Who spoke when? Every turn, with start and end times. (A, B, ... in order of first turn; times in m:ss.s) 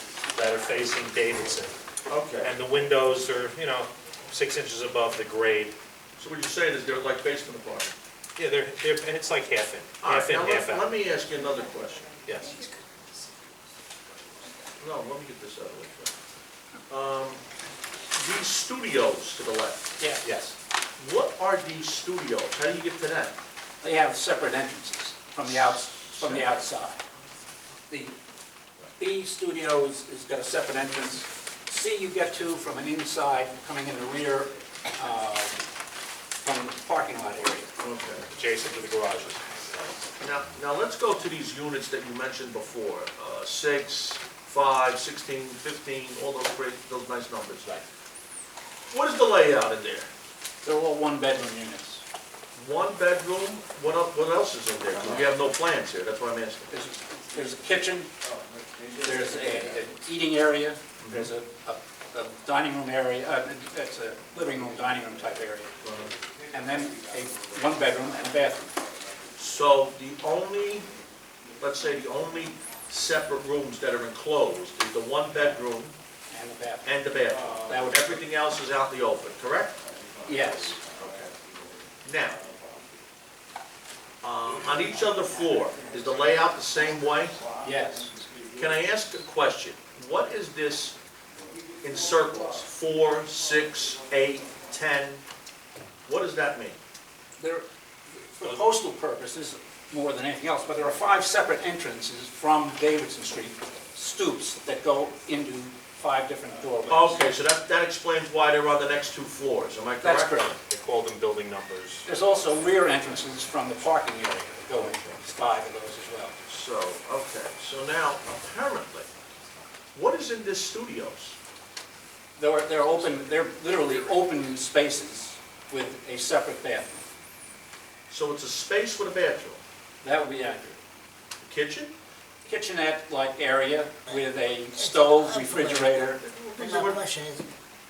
0:00.3-0:01.8 A
0:02.1-0:02.5 B
0:02.4-0:05.7 A
0:06.2-0:07.9 B
0:08.4-0:10.9 A
0:10.0-0:12.1 B
0:12.2-0:12.6 A
0:14.8-0:16.1 B
0:16.9-0:17.4 B
0:18.1-0:19.9 B
0:20.0-0:20.2 C
0:20.2-0:20.6 A
0:21.0-0:23.3 B
0:23.8-0:27.0 C
0:26.2-0:26.4 B
0:27.9-0:28.1 C
0:29.0-0:35.6 C
0:36.4-0:37.7 C
0:37.8-0:38.2 B
0:38.3-0:39.9 A
0:40.2-0:47.9 B
0:48.9-0:50.1 B
0:50.6-0:52.0 C
0:52.6-0:56.7 B
0:56.7-0:58.1 C
0:59.0-1:05.7 C
1:01.0-1:01.3 B
1:05.8-1:06.1 B
1:06.5-1:08.7 C
1:09.4-1:10.9 B
1:11.6-1:15.9 B
1:16.3-1:18.2 C
1:16.8-1:19.8 B
1:20.2-1:20.8 C
1:21.0-1:21.3 B
1:22.0-1:22.4 B
1:24.2-1:27.4 B
1:27.6-1:28.1 C
1:28.5-1:31.0 B
1:31.8-1:35.2 B
1:36.0-1:36.8 B
1:37.4-1:37.6 C
1:38.2-1:47.3 C
1:46.9-1:50.5 B
1:50.0-1:50.6 C
1:50.6-1:52.1 A
1:52.0-1:56.3 C
1:56.5-1:59.1 B
1:59.9-2:01.4 B
2:02.4-2:07.0 C
2:08.1-2:09.6 B
2:10.0-2:10.8 C
2:11.4-2:11.9 B
2:12.4-2:16.2 C
2:14.0-2:17.5 D
2:16.2-2:17.0 B